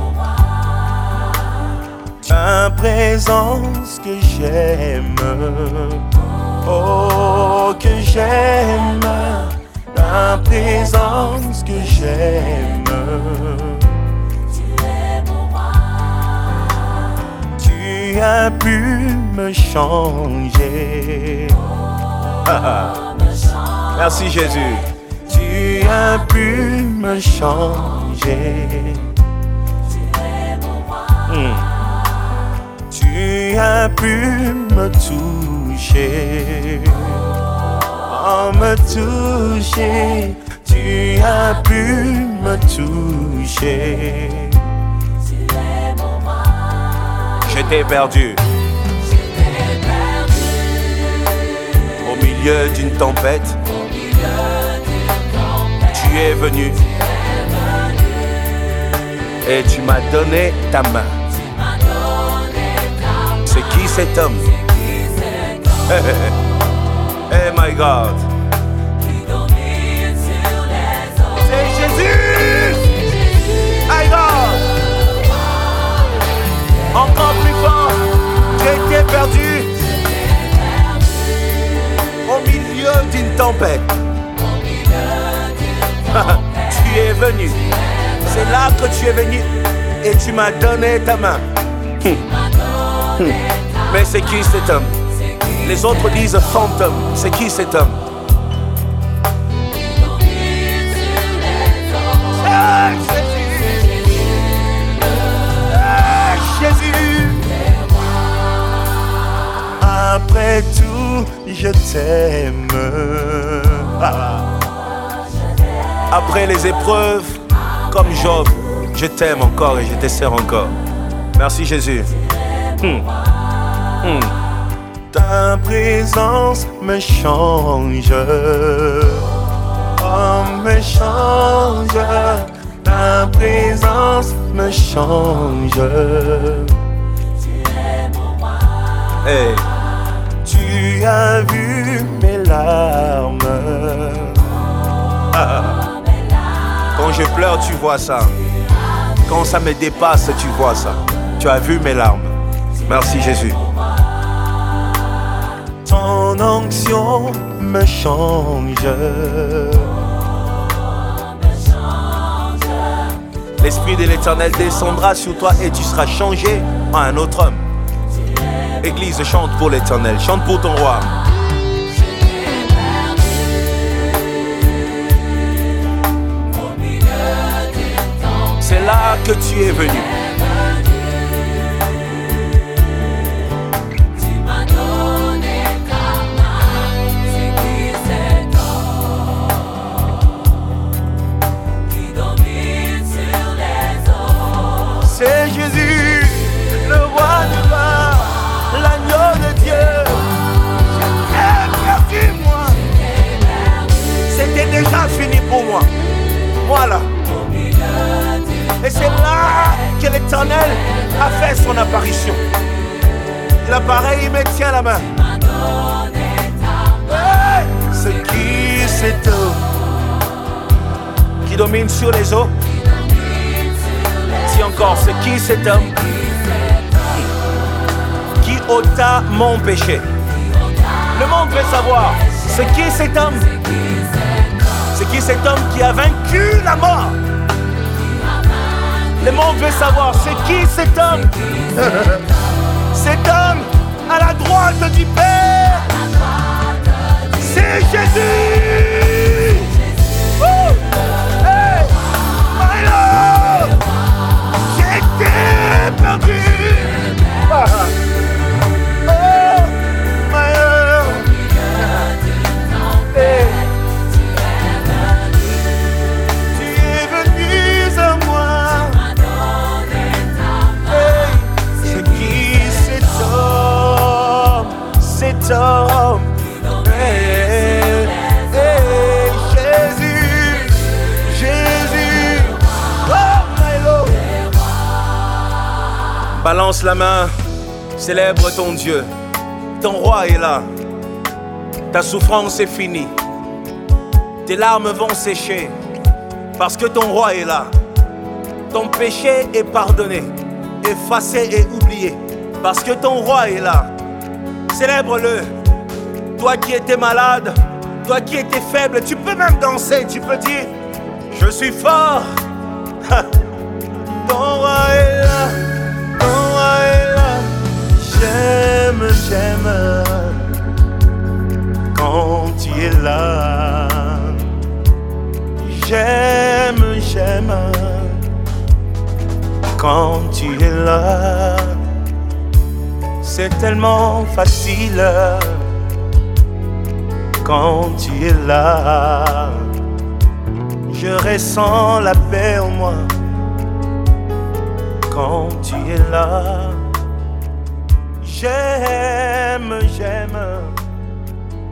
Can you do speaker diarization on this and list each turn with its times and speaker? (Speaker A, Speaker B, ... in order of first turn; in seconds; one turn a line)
Speaker A: 2.2-14.1
Speaker A: 17.6-21.7
Speaker A: 22.4-23.1
Speaker A: 23.9-29.2
Speaker A: 31.2-31.7
Speaker A: 32.9-37.4
Speaker A: 38.1-44.7
Speaker A: 47.4-48.4
Speaker A: 52.0-53.6
Speaker A: 55.8-56.9
Speaker A: 59.4-61.2
Speaker A: 63.3-64.6
Speaker A: 65.7-66.4
Speaker A: 67.3-68.3
Speaker A: 69.9-73.0
Speaker A: 73.7-74.8
Speaker A: 76.9-79.8
Speaker A: 82.2-84.0
Speaker A: 86.0-87.7
Speaker A: 88.2-92.3
Speaker A: 93.1-98.0
Speaker A: 102.1-104.2
Speaker A: 105.5-107.6
Speaker A: 109.8-114.4
Speaker A: 116.1-120.8
Speaker A: 121.3-122.1
Speaker A: 122.8-123.1
Speaker A: 124.0-124.3
Speaker A: 125.1-129.4
Speaker A: 129.9-136.8
Speaker A: 139.2-139.7
Speaker A: 140.4-144.5
Speaker A: 145.3-145.8
Speaker A: 146.9-148.4
Speaker A: 149.2-153.6
Speaker A: 155.8-160.1
Speaker A: 163.6-167.6
Speaker A: 168.8-171.2
Speaker A: 178.6-180.2
Speaker A: 192.3-194.1
Speaker A: 194.8-200.4
Speaker A: 200.9-202.9
Speaker A: 204.1-205.9
Speaker A: 206.6-207.2
Speaker A: 208.8-212.4
Speaker A: 213.6-215.2
Speaker A: 216.9-219.7
Speaker A: 221.4-222.5
Speaker A: 224.2-226.2
Speaker A: 228.4-230.1
Speaker A: 231.1-233.6
Speaker A: 234.9-237.2
Speaker A: 239.0-242.2
Speaker A: 242.9-246.0
Speaker A: 247.3-253.8
Speaker A: 254.7-258.0
Speaker A: 259.0-262.1
Speaker A: 263.0-263.7
Speaker A: 266.5-269.2
Speaker A: 270.4-284.4
Speaker A: 286.3-287.3
Speaker A: 287.9-289.1
Speaker A: 289.8-290.7
Speaker A: 291.9-293.1
Speaker A: 294.4-295.7
Speaker A: 296.6-297.7
Speaker A: 298.7-303.9
Speaker A: 304.7-305.6
Speaker A: 306.3-310.7
Speaker A: 311.3-312.4
Speaker A: 313.0-313.3
Speaker A: 314.2-320.7
Speaker A: 321.9-324.6
Speaker A: 325.6-328.3
Speaker A: 329.7-331.9
Speaker A: 333.2-335.7
Speaker A: 337.4-339.7
Speaker A: 340.9-343.1
Speaker A: 345.1-346.9
Speaker A: 348.2-350.8